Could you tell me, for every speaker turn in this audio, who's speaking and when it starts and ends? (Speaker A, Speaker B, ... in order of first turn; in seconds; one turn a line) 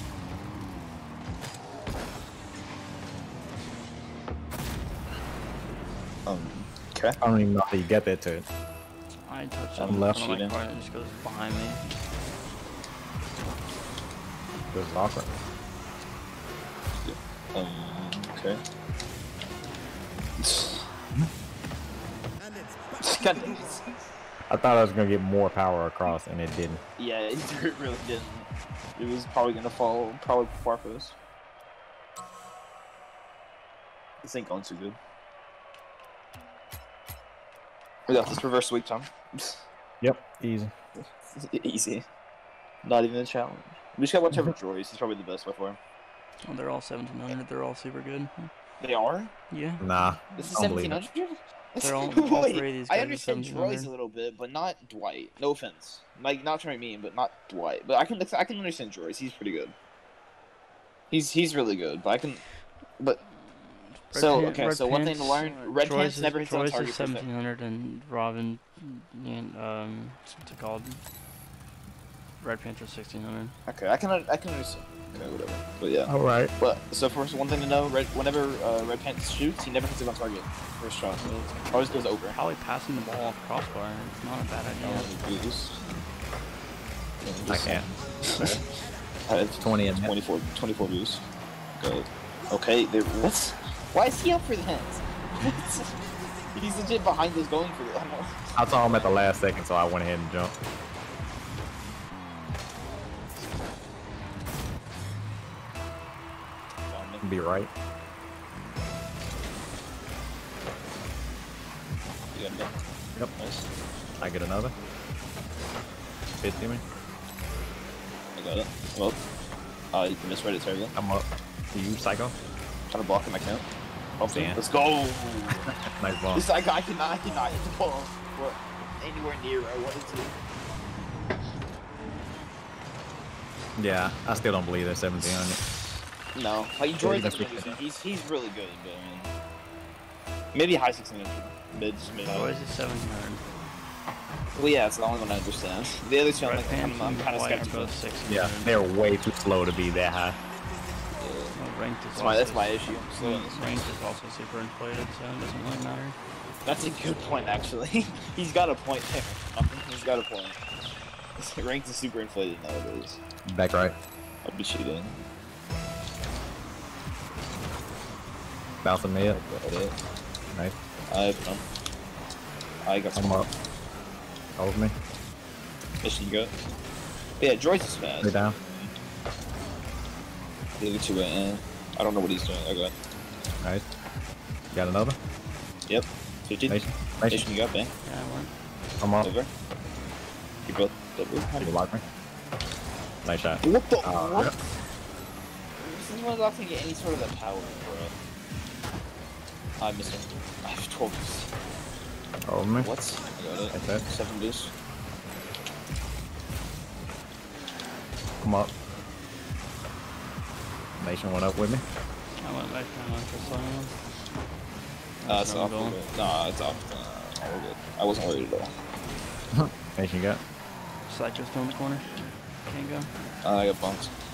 Speaker A: 6.2-7.2
Speaker B: 7.2-8.4
Speaker C: 9.2-11.8
Speaker A: 9.8-10.6
Speaker B: 9.8-10.2
Speaker B: 14.7-15.3
Speaker A: 17.0-18.6
Speaker A: 20.4-20.9
Speaker A: 23.0-23.8
Speaker B: 24.5-26.8
Speaker A: 27.0-31.2
Speaker A: 34.2-35.0
Speaker A: 38.1-39.6
Speaker B: 40.0-40.7
Speaker A: 41.0-42.0
Speaker A: 42.8-45.8
Speaker C: 46.4-48.5
Speaker A: 48.8-49.3
Speaker C: 49.5-49.8
Speaker B: 49.8-51.0
Speaker A: 50.3-59.7
Speaker C: 51.8-53.9
Speaker A: 61.1-62.4
Speaker C: 63.5-71.0
Speaker A: 64.1-67.3
Speaker C: 72.4-73.5
Speaker A: 73.7-82.3
Speaker B: 76.1-76.5
Speaker C: 81.2-81.7
Speaker C: 82.3-85.1
Speaker A: 84.8-85.8
Speaker A: 87.2-88.6
Speaker B: 87.5-88.6
Speaker A: 89.3-91.2
Speaker B: 89.6-90.1
Speaker A: 91.8-99.1
Speaker B: 98.5-100.5
Speaker A: 106.9-107.2
Speaker B: 107.2-107.7
Speaker A: 112.3-112.7
Speaker A: 113.3-113.7
Speaker B: 114.2-114.7
Speaker B: 116.4-116.8
Speaker A: 118.3-119.2
Speaker A: 119.9-120.9
Speaker B: 120.9-122.3
Speaker A: 122.9-123.6
Speaker A: 124.2-125.7
Speaker B: 124.2-124.6
Speaker B: 125.7-126.4
Speaker A: 126.3-130.3
Speaker B: 133.8-135.6
Speaker A: 136.3-139.3
Speaker B: 137.0-137.8
Speaker A: 140.5-142.5
Speaker C: 142.3-143.4
Speaker A: 144.5-147.9
Speaker C: 146.4-148.7
Speaker B: 148.3-150.4
Speaker A: 151.2-151.6
Speaker C: 151.5-156.2
Speaker A: 152.1-153.9
Speaker A: 156.6-160.6
Speaker A: 161.4-163.2
Speaker B: 163.5-163.9
Speaker A: 164.4-165.2
Speaker B: 168.8-169.4
Speaker A: 169.3-169.9
Speaker A: 171.1-171.7
Speaker A: 172.8-173.5
Speaker B: 173.1-173.5
Speaker B: 174.6-174.9
Speaker A: 176.0-176.5
Speaker A: 177.4-178.9
Speaker B: 178.2-178.6
Speaker A: 180.8-182.9
Speaker B: 184.7-185.2
Speaker A: 185.9-186.8
Speaker B: 186.7-187.5
Speaker A: 187.3-187.9
Speaker C: 188.0-188.5
Speaker B: 189.0-189.3
Speaker A: 189.2-189.5
Speaker A: 190.7-191.7
Speaker B: 191.6-192.0
Speaker B: 193.2-194.5
Speaker A: 193.6-194.6
Speaker A: 195.8-198.1
Speaker A: 199.8-201.5
Speaker B: 202.4-202.9
Speaker A: 202.8-204.7
Speaker B: 203.7-204.1
Speaker B: 208.4-208.7
Speaker B: 211.0-211.8
Speaker C: 212.4-213.9
Speaker C: 215.2-216.0
Speaker A: 215.2-218.7
Speaker B: 219.5-220.4
Speaker C: 221.1-223.1
Speaker A: 223.4-224.1